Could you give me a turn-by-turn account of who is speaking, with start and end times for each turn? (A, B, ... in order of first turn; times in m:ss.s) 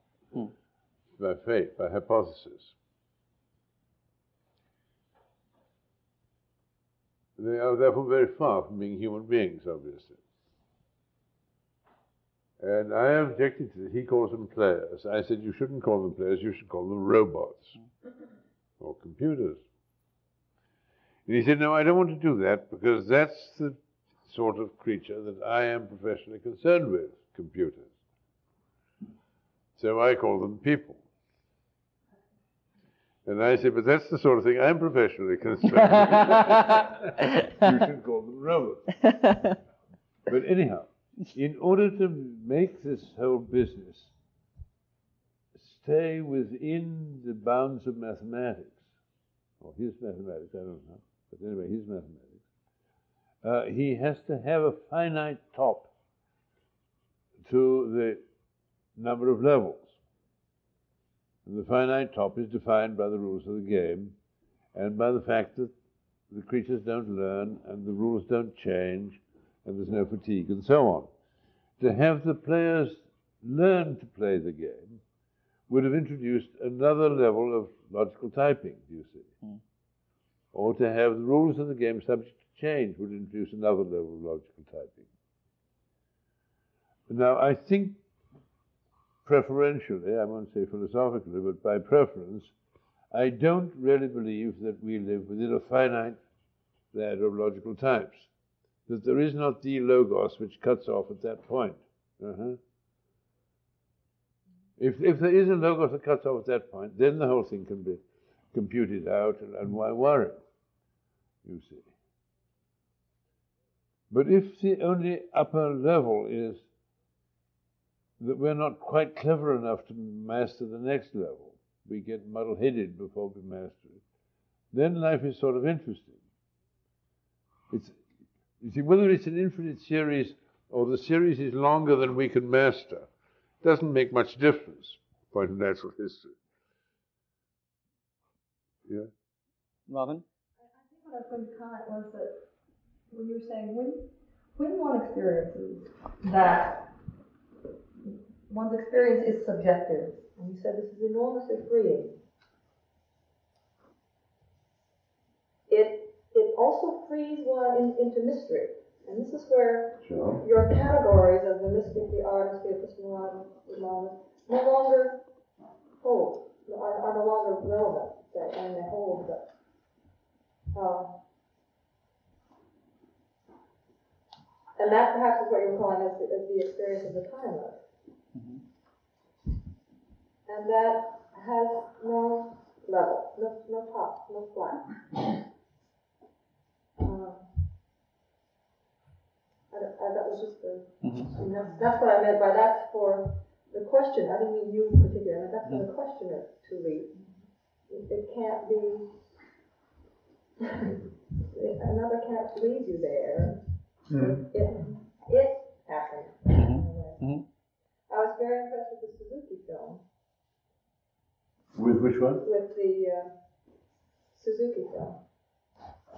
0:01.2-0:02.7 A
0:07.4-0:10.2 A
0:12.6-0:17.8 A
0:18.8-0:19.6 A
0:21.3-0:27.9 A
0:29.8-0:31.0 A
0:33.2-0:39.0 A
0:40.3-0:44.1 A
0:45.6-0:48.8 A
0:49.6-0:52.4 A
0:53.4-0:55.9 A
0:57.4-0:58.2 A
0:59.0-0:59.9 A
1:01.4-1:04.2 A
1:04.7-1:05.7 A
1:06.3-1:11.1 A
1:11.8-1:15.0 A
1:15.7-1:19.3 A
1:20.5-1:25.1 A
1:27.1-1:28.0 A
1:29.2-1:32.5 A
1:33.1-1:36.2 A
1:36.9-1:38.3 A
1:38.9-1:42.6 A
1:44.8-1:50.4 A
1:51.4-1:51.9 A
1:54.1-1:56.6 A
1:58.2-2:04.0 A
2:04.7-2:06.2 A
2:07.7-2:08.0 A
2:08.6-2:13.1 A
2:13.6-2:16.3 A
2:19.9-2:20.2 B
2:20.6-2:22.4 C
2:23.1-2:27.0 C
2:28.5-2:32.2 C
2:35.7-2:45.2 C
2:40.0-2:40.4 A
2:46.0-2:49.5 C
2:50.7-2:51.2 C
2:54.8-2:57.8 C
2:58.3-2:58.6 B
3:00.4-3:05.4 C
3:07.0-3:07.7 C
3:09.7-3:17.3 C
3:11.0-3:11.3 B
3:17.9-3:19.2 C
3:20.7-3:27.2 C
3:24.1-3:24.4 A
3:26.5-3:27.4 B
3:28.1-3:30.0 C
3:31.7-3:32.4 A
3:32.4-3:33.3 C
3:34.3-3:35.2 C